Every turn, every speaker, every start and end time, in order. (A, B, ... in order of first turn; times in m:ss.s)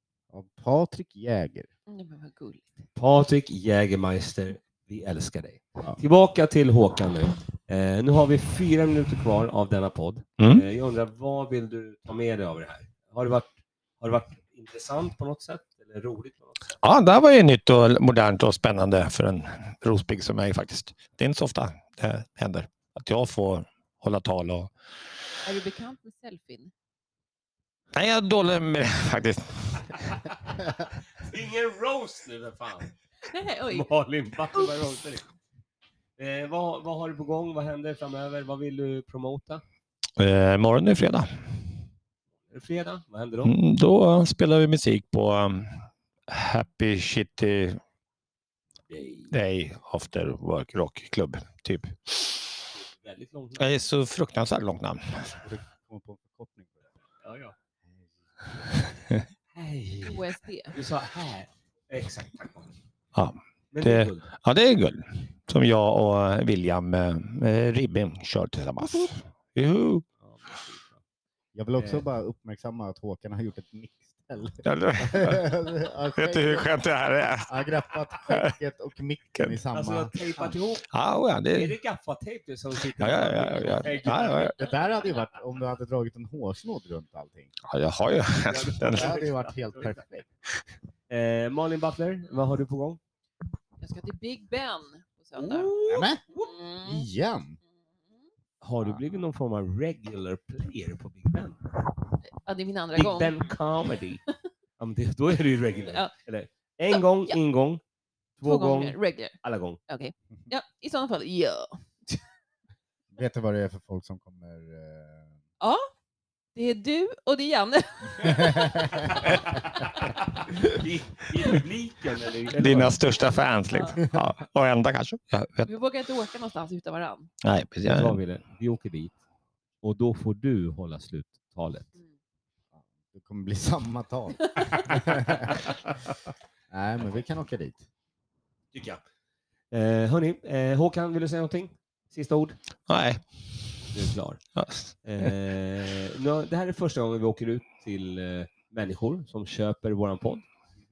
0:00.3-0:01.7 A
0:01.9-0:02.7 B
0:03.0-0:16.7 C
0:10.4-0:10.6 D
0:16.8-0:24.7 D
0:25.4-0:26.7 B
0:27.9-0:30.2 D
0:30.6-0:32.9 C
0:33.2-0:33.9 B
0:33.7-0:35.3 C
0:36.2-0:39.6 C
0:40.2-0:41.3 D
0:42.5-0:43.5 C
0:43.4-0:47.8 D
0:48.9-0:49.3 C
0:49.3-0:52.3 D
0:52.7-0:53.7 C
0:53.6-0:55.4 D
0:55.4-0:56.8 A
0:57.2-0:57.5 C
0:59.5-1:02.7 C
1:00.0-1:00.8 B
1:03.1-1:10.0 D
1:03.7-1:04.3 C
1:10.2-1:11.0 C
1:11.5-1:16.7 A
1:11.8-1:12.0 C
1:14.6-1:15.5 D
1:16.2-1:17.6 D
1:17.4-1:20.5 A
1:19.7-1:20.9 C
1:20.9-1:21.7 D
1:21.5-1:24.5 C
1:23.0-1:24.5 D
1:24.5-1:27.5 A
1:27.6-1:29.2 D
1:28.4-1:30.0 C
1:28.8-1:30.3 A
1:31.1-1:33.0 C
1:33.8-1:35.7 B
1:35.3-1:36.5 C
1:35.9-1:36.2 A
1:36.4-1:37.0 B
1:36.8-1:37.6 A
1:38.6-1:41.6 C
1:42.3-1:43.4 B
1:42.9-1:44.2 C
1:44.8-1:47.8 C
1:45.7-1:46.1 B
1:46.9-1:47.4 B
1:48.4-1:49.8 C
1:48.4-1:52.2 B
1:53.1-1:55.3 A
1:55.6-1:55.9 B
1:56.5-1:59.6 B
1:58.2-1:59.0 A
1:59.1-2:02.9 C
2:02.5-2:05.7 D
2:03.7-2:04.0 B
2:05.6-2:07.3 B
2:07.4-2:08.2 D
2:07.8-2:09.2 C
2:09.8-2:12.0 C
2:12.7-2:15.7 A
2:14.5-2:14.9 B
2:16.7-2:17.8 A
2:18.7-2:19.0 C
2:19.7-2:22.6 C
2:22.9-2:23.2 D
2:23.9-2:24.4 C
2:24.6-2:25.3 D
2:25.0-2:30.4 C